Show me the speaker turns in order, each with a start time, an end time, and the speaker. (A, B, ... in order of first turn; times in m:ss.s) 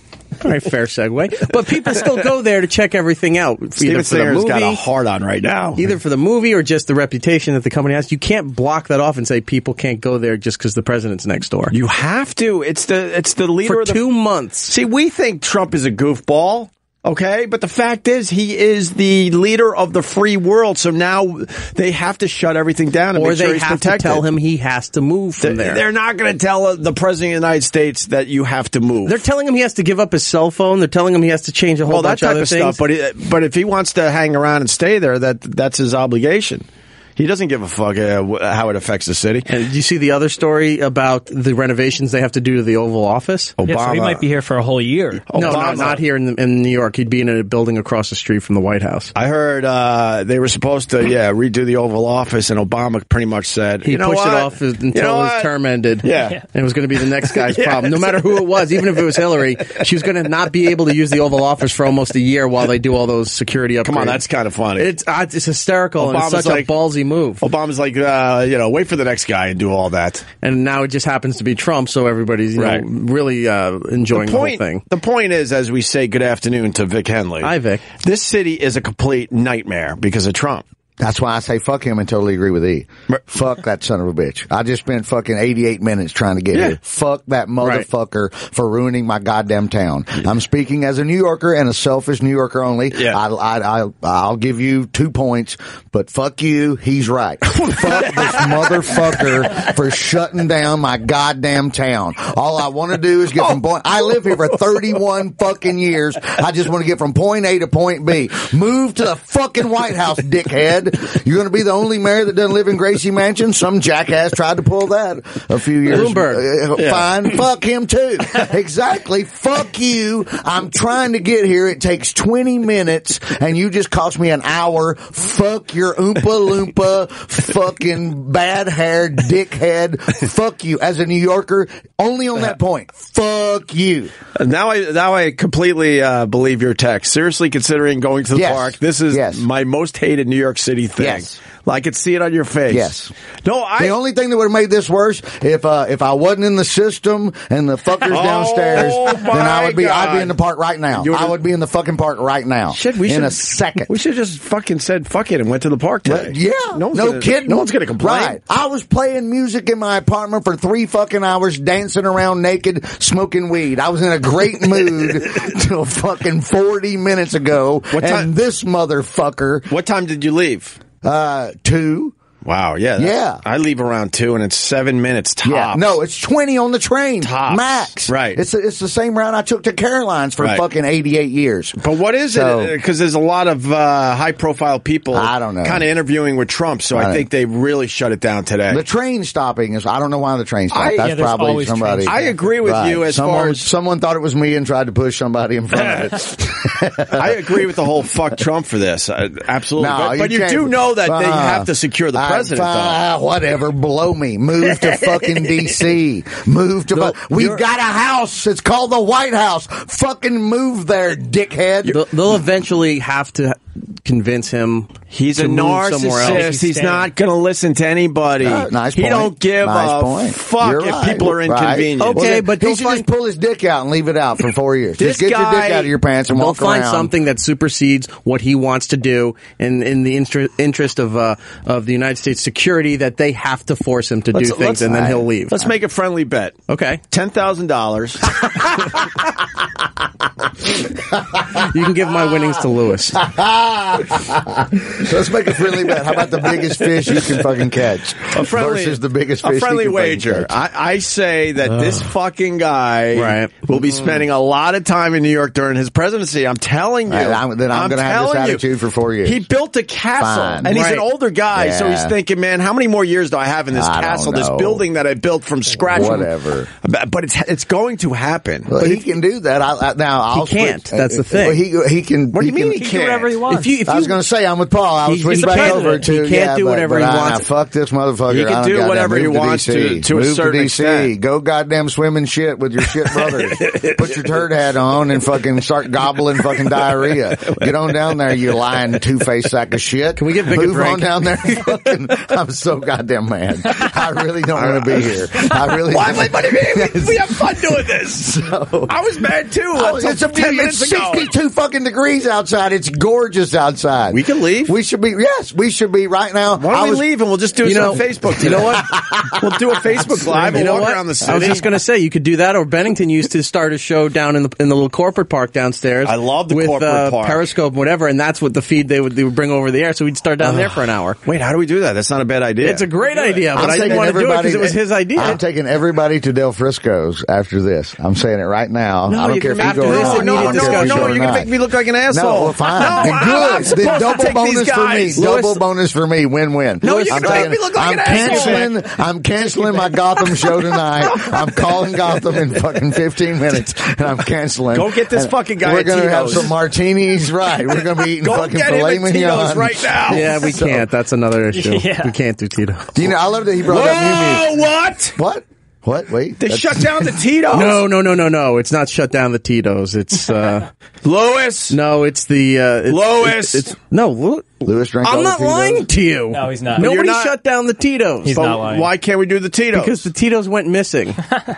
0:00.4-0:04.8 A
0:03.8-0:05.9 B
0:05.8-0:11.7 A
0:11.7-0:14.0 B
0:13.7-0:14.7 A
0:14.7-0:24.2 B
0:23.2-0:25.8 A
0:25.4-0:29.2 B
0:29.0-0:32.8 A
0:31.9-0:36.6 B
0:37.2-0:39.5 B
0:39.5-0:43.6 A
0:43.6-0:44.2 B
0:43.6-0:45.8 C
0:45.3-0:46.0 B
0:45.3-0:49.1 A
0:49.2-0:55.5 B
0:53.8-1:04.2 A
0:56.0-0:56.4 B
0:57.3-0:59.0 B
1:03.8-1:04.9 B
1:04.8-1:07.4 A
1:06.0-1:06.7 B
1:07.4-1:10.2 B
1:10.4-1:14.8 A
1:12.6-1:12.8 B
1:14.1-1:20.6 B
1:17.4-1:17.8 A
1:21.0-2:14.1 D
1:32.9-1:33.2 B
1:55.9-1:56.5 A
1:56.8-1:57.3 B
2:14.4-2:24.0 B
2:18.3-2:19.4 D
2:21.0-2:21.4 D
2:22.7-2:23.1 D
2:23.8-2:33.9 D
2:28.1-2:30.4 B
2:31.0-2:31.4 B
2:32.7-2:38.4 B
2:36.1-2:49.7 D
2:47.9-2:48.3 B
2:49.7-2:50.8 B
2:51.0-2:52.2 D
2:52.4-2:55.9 B
2:53.0-2:53.4 D
2:55.4-3:01.8 D
2:57.2-2:58.4 B
3:01.8-3:08.8 B
3:02.3-3:02.7 D
3:05.1-3:05.8 D
3:06.9-3:07.3 D
3:08.7-3:17.6 D
3:10.8-3:12.3 C
3:12.0-3:13.7 B
3:17.2-3:23.0 B
3:19.8-3:32.0 D
3:26.9-3:27.6 A
3:31.9-3:36.6 A
3:35.1-3:42.3 B
3:36.2-3:37.1 C
3:38.4-3:47.1 D
3:42.0-3:43.1 A
3:45.0-3:45.9 B
3:46.3-3:55.7 A
3:54.4-3:56.6 B
3:54.9-3:55.2 D
3:56.7-3:57.0 A
3:57.1-3:59.0 B
4:00.9-4:01.6 D
4:01.6-4:03.2 A
4:03.2-4:10.6 D
4:08.3-4:18.7 B
4:13.2-4:14.1 A
4:17.1-4:19.5 D
4:19.2-4:26.3 B
4:20.2-4:20.7 D
4:20.7-4:21.0 A
4:21.5-4:22.2 D
4:23.7-4:24.8 D
4:25.9-4:26.7 D
4:26.8-4:29.0 B
4:28.7-4:33.0 D
4:30.3-4:31.6 A
4:32.3-4:33.4 B
4:32.8-4:33.8 C
4:33.4-4:34.2 A
4:33.8-4:59.0 D
4:35.0-4:37.5 A
4:35.3-4:35.9 B
4:38.3-4:41.1 B
4:43.1-4:44.1 B
4:47.5-4:47.9 B
4:50.2-4:51.3 A
4:54.6-4:58.2 B
4:58.9-5:01.3 B
4:59.7-5:07.0 D
5:04.1-5:04.8 B
5:06.6-5:11.7 B
5:07.6-5:08.8 A
5:08.4-5:10.6 D
5:10.5-5:21.2 A
5:16.0-5:17.5 B
5:20.4-5:24.2 B
5:22.6-5:25.4 A
5:23.5-5:31.5 D
5:29.1-5:35.6 B
5:29.6-5:31.3 A
5:32.1-5:50.9 D
5:36.8-5:38.7 A
5:36.8-5:38.8 B
5:41.0-5:41.9 B
5:44.7-5:46.6 B
5:48.0-5:50.3 B
5:50.1-5:52.9 A
5:51.5-5:52.1 C
5:53.0-5:54.6 D
5:53.7-5:55.2 B
5:55.2-5:57.1 D
5:56.4-5:57.9 B
5:57.5-6:00.7 A
6:01.0-6:01.8 B
6:01.7-6:08.6 A
6:02.9-6:03.7 B
6:04.6-6:05.9 D
6:06.3-6:06.9 C
6:06.8-6:07.4 B
6:08.2-6:08.8 C
6:08.4-6:10.1 B
6:09.7-6:11.2 A